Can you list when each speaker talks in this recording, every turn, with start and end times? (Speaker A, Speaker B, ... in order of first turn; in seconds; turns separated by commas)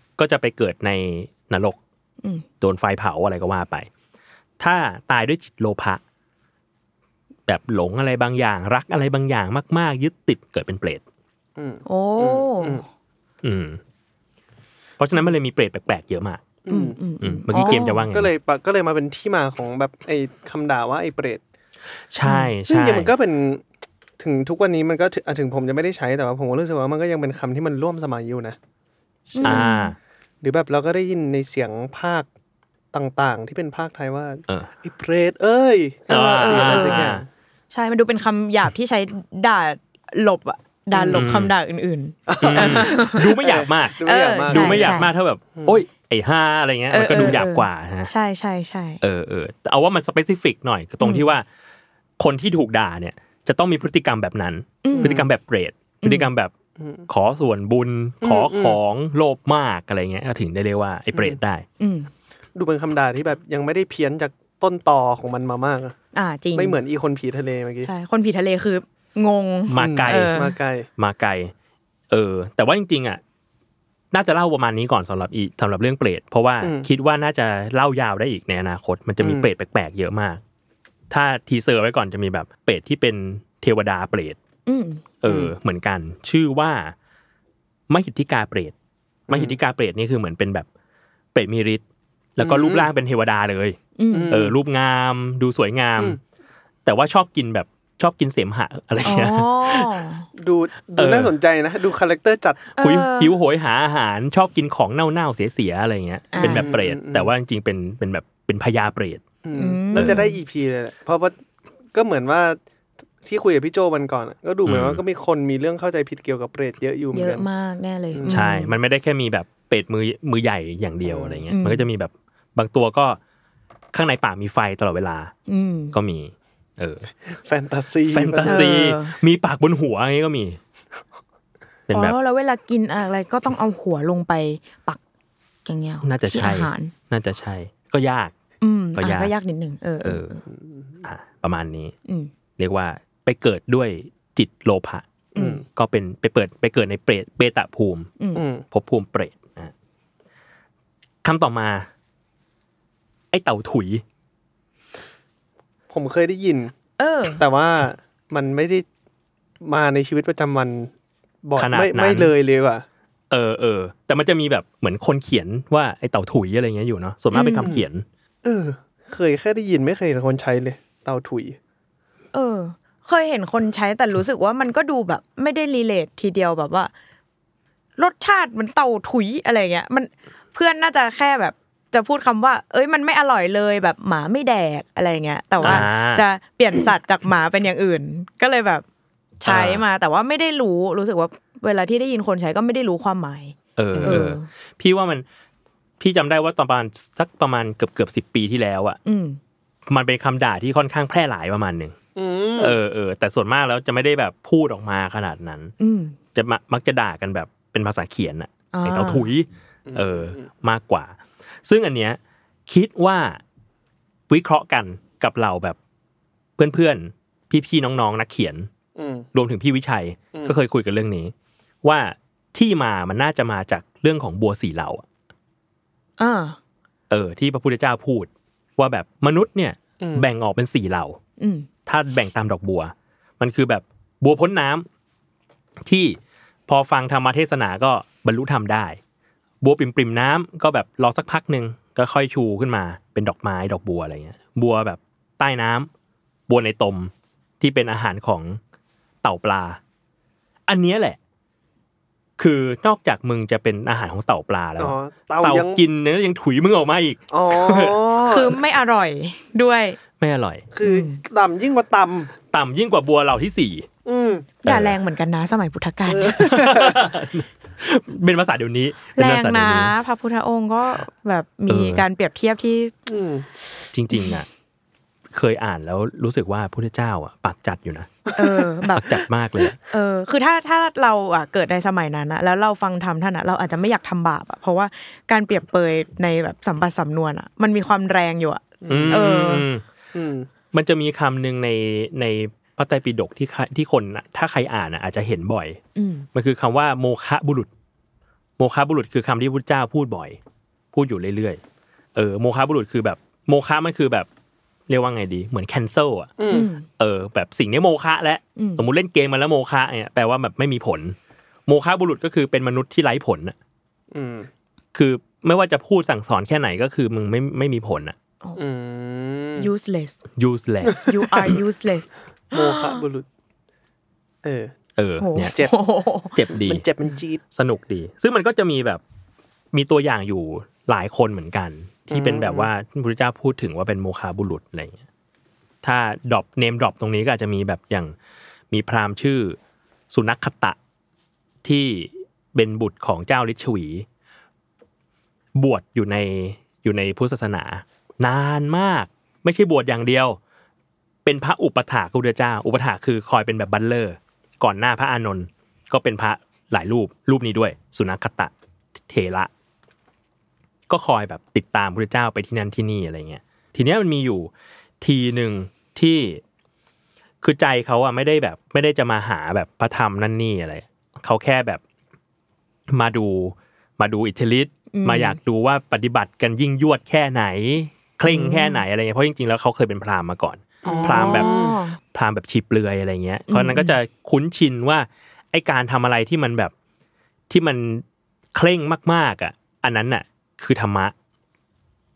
Speaker A: 0.2-1.8, Speaker A: 2.6-3.9, Speaker A: 4.6-6.0, Speaker A: 7.5-11.0, Speaker B: 11.6-12.8, Speaker C: 11.9-12.8, Speaker A: 13.4-13.8, Speaker A: 15.0-16.4, Speaker B: 16.7-17.0, Speaker C: 16.7-18.1, Speaker A: 17.2-18.3, Speaker B: 17.5-21.4, Speaker A: 22.1-23.1, Speaker C: 22.2-22.5, Speaker B: 22.7-23.6, Speaker B: 24.2-28.6, Speaker B: 29.3-29.6, Speaker C: 29.4-29.9, Speaker A: 29.4-30.0, Speaker B: 30.4-32.3, Speaker B: 32.9-37.3, Speaker C: 36.1-37.2, Speaker A: 36.1-37.2, Speaker C: 37.7-43.3, Speaker B: 40.9-41.3, Speaker A: 41.1-41.5, Speaker B: 42.3-45.8, Speaker A: 42.4-48.1, Speaker C: 44.0-45.1, Speaker C: 46.9-49.0, Speaker A: 49.0-51.5, Speaker C: 51.0-51.3, Speaker A: 52.2-56.5, Speaker C: 54.8-55.2, Speaker B: 54.9-55.3, Speaker C: 56.0-56.3, Speaker B: 56.8-57.1, Speaker A: 57.1-61.6, Speaker B: 58.2-58.8, Speaker C: 61.8-62.1, Speaker B: 62.5-66.0, Speaker C: 66.1-66.8, Speaker B: 66.5-67.9, Speaker C: 67.8-70.5, Speaker A: 69.7-70.4, Speaker B: 69.8-70.9, Speaker A: 71.0-71.5, Speaker A: 72.1-73.2, Speaker A: 74.1-80.4, Speaker B: 76.6-76.9, Speaker B: 79.2-79.5, Speaker A: 81.1-84.4, Speaker C: 84.7-85.0, Speaker A: 85.2-86.9, Speaker B: 85.3-85.5, Speaker A: 87.9-88.7, Speaker B: 89.3-89.6, Speaker A: 89.3-90.7, Speaker A: 91.3-91.8, Speaker A: 92.4-93.8, Speaker B: 92.4-92.9, Speaker C: 94.0-94.4, Speaker B: 94.1-94.5, Speaker A: 94.3-96.2, Speaker A: 96.8-99.9, Speaker C: 99.0-100.3, Speaker B: 100.4-102.7, Speaker A: 101.0-101.3, Speaker C: 102.8-103.3, Speaker A: 102.8-109.2, Speaker C: 106.3-106.7, Speaker B: 106.4-107.3, Speaker B: 109.4-111.3, Speaker C: 109.5-110.4, Speaker A: 109.9-110.2, Speaker B: 111.9-112.6, Speaker B: 113.2-117.5, Speaker A: 114.7-115.0, Speaker C: 117.1-118.8, Speaker B: 118.1-118.4, Speaker A: 118.3-123.2, Speaker B: 121.0-121.5, Speaker C: 121.5-121.8, Speaker A: 123.9-125.3, Speaker C: 125.5-126.0, Speaker A: 125.9-127.1, Speaker B: 127.4-128.8, Speaker A: 128.1-130.6, Speaker C: 128.4-129.2, Speaker A: 131.9-132.2, Speaker C: 131.9-135.0, Speaker C: 135.7-136.9, Speaker A: 136.0-138.3, Speaker C: 138.6-140.4, Speaker A: 139.0-139.3, Speaker A: 140.0-140.4, Speaker B: 140.5-140.8, Speaker A: 141.0-141.9, Speaker A: 142.6-145.1, Speaker C: 145.3-145.6, Speaker B: 145.3-145.7, Speaker A: 145.7-148.1, Speaker B: 148.3-148.7, Speaker A: 148.7-149.7, Speaker A: 151.2-151.9, Speaker A: 153.3-154.0, Speaker B: 155.9-156.7, Speaker C: 157.0-157.4, Speaker B: 157.4-158.8, Speaker B: 159.6-160.9, Speaker B: 161.4-162.8, Speaker A: 161.6-162.3, Speaker A: 163.3-168.1, Speaker C: 167.3-167.7, Speaker B: 168.4-171.6, Speaker C: 172.3-176.9, Speaker C: 178.0-188.8, Speaker A: 185.6-186.2, Speaker C: 189.4-194.5, Speaker A: 189.4-189.8, Speaker A: 193.8-195.2, Speaker B: 193.9-194.2, Speaker A: 196.0-199.0, Speaker C: 199.1-199.4, Speaker A: 199.9-202.0, Speaker B: 202.2-202.8, Speaker A: 202.6-205.7, Speaker C: 205.8-206.2, Speaker A: 206.3-213.4, Speaker C: 208.7-209.3, Speaker B: 209.9-210.5, Speaker A: 214.3-215.8, Speaker A: 216.6-218.7, Speaker B: 219.0-219.3, Speaker A: 219.3-225.1, Speaker C: 226.2-226.6, Speaker A: 227.1-231.2, Speaker B: 230.0-230.3, Speaker C: 231.4-231.7, Speaker A: 231.9-234.9, Speaker A: 235.8-239.0, Speaker A: 239.6-245.9, Speaker A: 246.5-248.6, Speaker A: 249.2-249.8, Speaker A: 250.7-251.2, Speaker A: 252.4-258.0, Speaker B: 254.8-255.8, Speaker B: 257.3-258.6, Speaker C: 258.3-260.0, Speaker A: 260.2-260.6, Speaker B: 260.7-262.3, Speaker C: 260.8-261.2, Speaker A: 262.5-263.9, Speaker B: 264.1-264.5, Speaker C: 264.6-266.4, Speaker A: 264.7-265.0, Speaker B: 266.1-267.1, Speaker A: 266.4-269.9, Speaker C: 269.2-272.9, Speaker A: 271.7-272.0, Speaker B: 273.1-273.7, Speaker A: 273.9-274.5, Speaker A: 275.3-278.3, Speaker B: 278.3-278.6, Speaker C: 278.4-279.1, Speaker A: 278.9-279.8, Speaker C: 279.9-289.6, Speaker B: 288.8-289.4, Speaker A: 288.9-289.8, Speaker B: 290.1-290.5, Speaker A: 290.7-295.8, Speaker C: 296.0-296.3, Speaker A: 296.3-297.7, Speaker A: 298.6-300.4, Speaker A: 300.9-301.6, Speaker A: 302.1-304.3, Speaker A: 304.9-306.3, Speaker B: 306.4-306.7, Speaker C: 306.5-306.9, Speaker A: 306.9-313.6, Speaker C: 308.6-308.8, Speaker B: 314.1-314.5, Speaker A: 314.9-318.2, Speaker B: 318.6-319.7, Speaker C: 319.6-320.2, Speaker A: 320.4-321.5, Speaker C: 320.8-323.0, Speaker B: 322.5-323.3, Speaker B: 324.4-324.7, Speaker A: 325.0-325.5, Speaker C: 325.2-326.4, Speaker B: 325.4-325.7, Speaker A: 326.3-326.9, Speaker B: 326.5-327.4, Speaker A: 327.5-329.0, Speaker A: 329.7-335.0, Speaker B: 332.1-332.7, Speaker A: 335.8-338.1, Speaker A: 338.7-339.6, Speaker A: 340.1-340.8, Speaker A: 341.6-344.1, Speaker A: 345.6-350.4, Speaker A: 351.2-359.5, Speaker A: 360.9-364.5, Speaker A: 365.0-366.4, Speaker A: 367.4-371.8, Speaker A: 372.9-381.5, Speaker C: 374.9-375.4, Speaker C: 378.3-378.8, Speaker B: 380.8-381.8, Speaker C: 380.9-382.0, Speaker A: 382.1-386.7, Speaker C: 383.5-383.9, Speaker A: 387.5-391.1